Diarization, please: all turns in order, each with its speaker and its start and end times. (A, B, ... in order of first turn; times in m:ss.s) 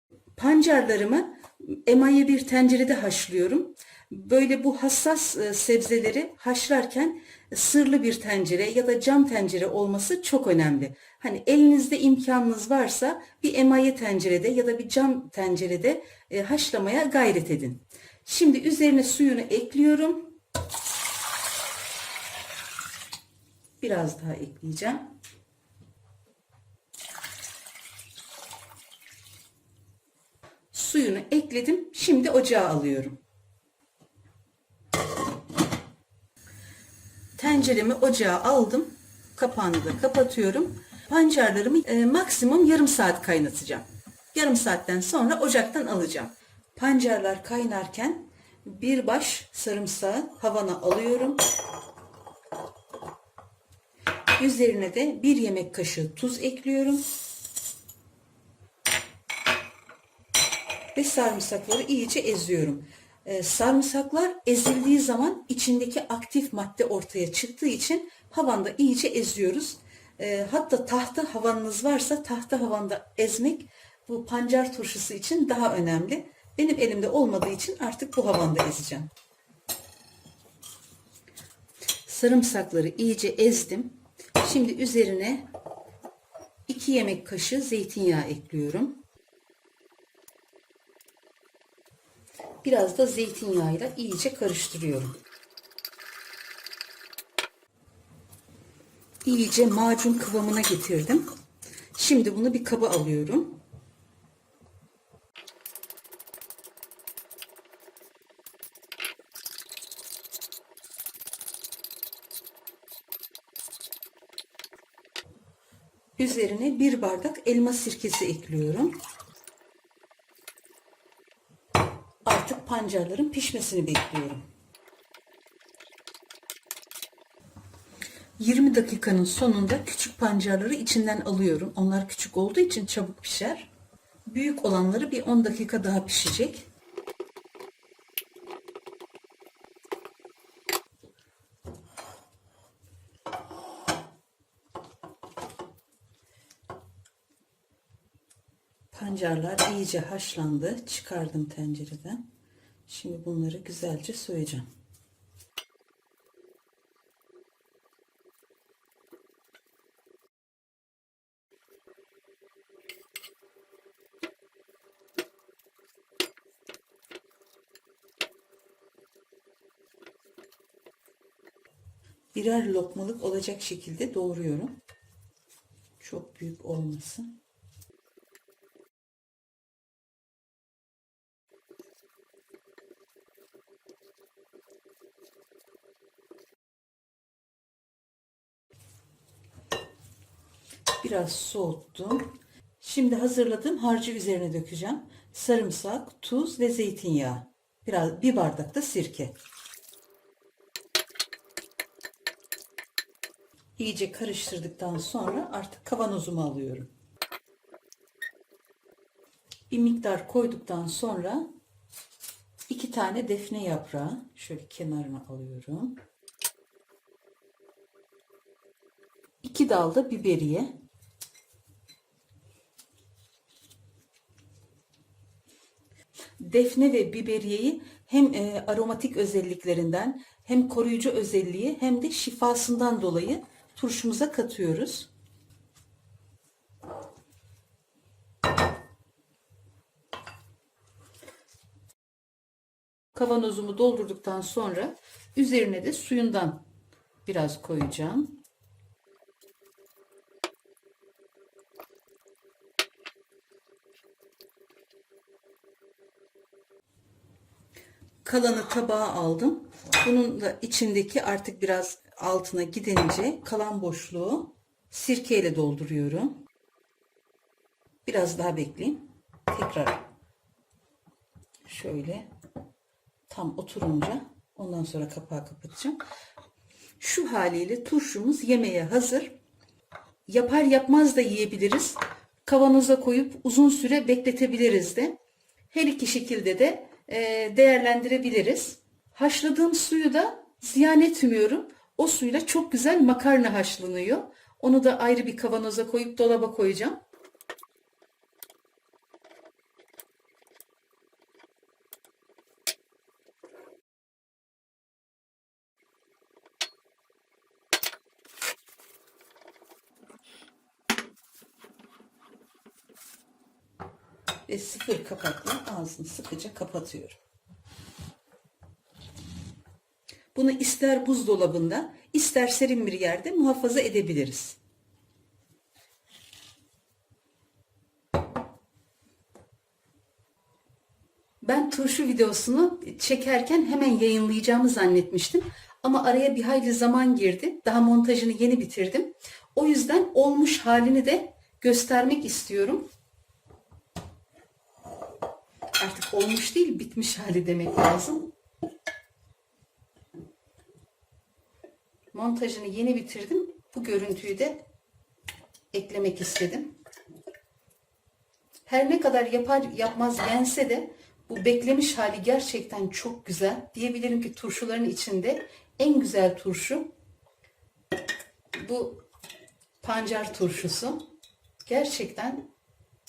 0:00.4-0:20.4 A
0:23.8-0:25.1 A
0:30.7-0:33.2 A
0:37.4-0:51.4 A
0:54.4-0:57.0 A
1:00.9-1:19.1 A
1:22.0-1:25.4 A
1:26.7-1:29.0 A
1:32.6-1:35.2 A
1:39.2-1:41.3 A
1:41.9-1:43.6 A
1:56.2-1:59.0 A
2:02.2-2:04.4 A
2:08.4-2:13.7 A
2:14.2-2:16.7 A
2:28.9-2:32.2 A
2:32.9-2:34.7 A
2:52.3-2:54.8 A
2:56.0-2:57.4 A
3:11.0-3:19.3 A
3:23.8-3:26.9 A
3:29.7-3:31.5 A
3:32.7-3:36.0 A
3:39.4-3:40.8 A
3:46.4-3:55.1 A
4:03.1-4:06.6 A
4:07.2-4:08.4 A
4:18.2-4:26.4 A
4:28.0-4:30.0 A
4:31.6-4:32.3 A
4:33.3-4:36.0 A
4:37.0-4:39.4 A
4:40.3-4:45.2 A
4:45.7-4:57.0 A
5:14.5-5:17.2 A
5:20.3-5:24.6 A
5:31.4-5:42.9 A
5:45.8-5:48.3 A
5:52.1-5:54.6 A
5:55.7-5:56.8 A
5:58.6-6:06.9 A
6:08.5-6:09.0 A
6:09.8-6:11.1 A
6:11.6-6:12.5 A